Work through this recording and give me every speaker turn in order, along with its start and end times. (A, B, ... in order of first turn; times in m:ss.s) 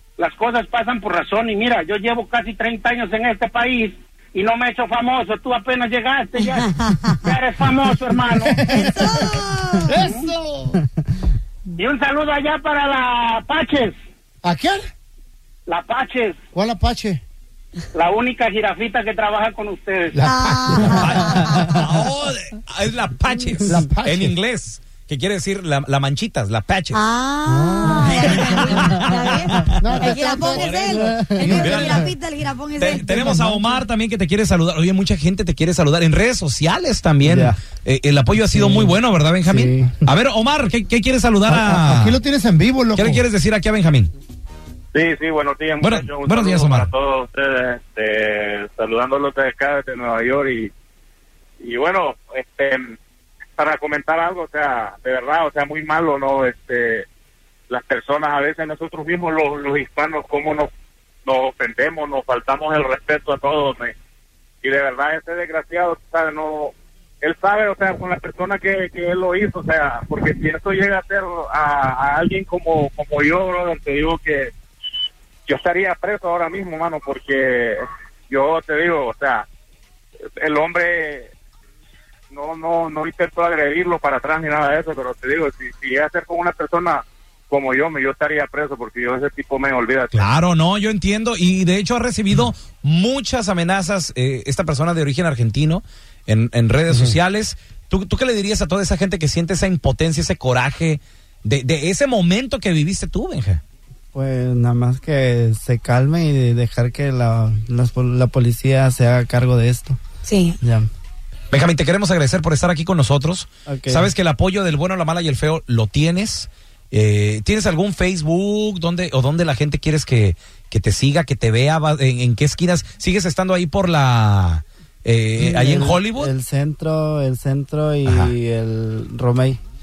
0:00.2-0:08.7 A
0:06.4-0:07.3 B
0:08.3-0:10.8 C
0:08.7-0:10.0 B
0:11.8-0:13.9 A
0:14.4-0:14.8 C
0:15.7-0:16.4 A
0:16.5-0:17.2 C
0:17.9-0:20.2 A
0:20.1-0:21.4 C
0:20.2-0:21.7 B
0:20.9-0:27.0 D
0:21.6-0:21.8 E
0:23.6-0:24.3 C
0:26.9-0:33.8 B
0:27.4-0:31.0 C
0:28.1-0:32.1 D
0:30.7-0:32.1 E
0:32.8-0:42.2 D
0:37.2-0:37.6 E
0:38.4-0:40.1 E
0:41.4-0:43.2 C
0:42.9-0:44.1 D
0:44.9-0:50.7 F
0:45.8-0:46.9 D
0:51.6-0:53.0 F
0:53.6-0:57.0 F
0:57.7-1:00.7 F
1:01.2-1:03.9 F
1:04.6-1:14.5 F
1:15.5-1:19.4 F
1:20.4-1:21.3 F
1:22.3-1:30.3 F
1:30.1-1:43.6 D
1:36.9-1:37.2 C
1:44.1-1:50.0 E
1:50.2-1:50.6 B
1:51.5-2:06.3 D
1:53.7-1:54.1 E
2:05.4-2:09.6 E
2:08.0-2:08.3 D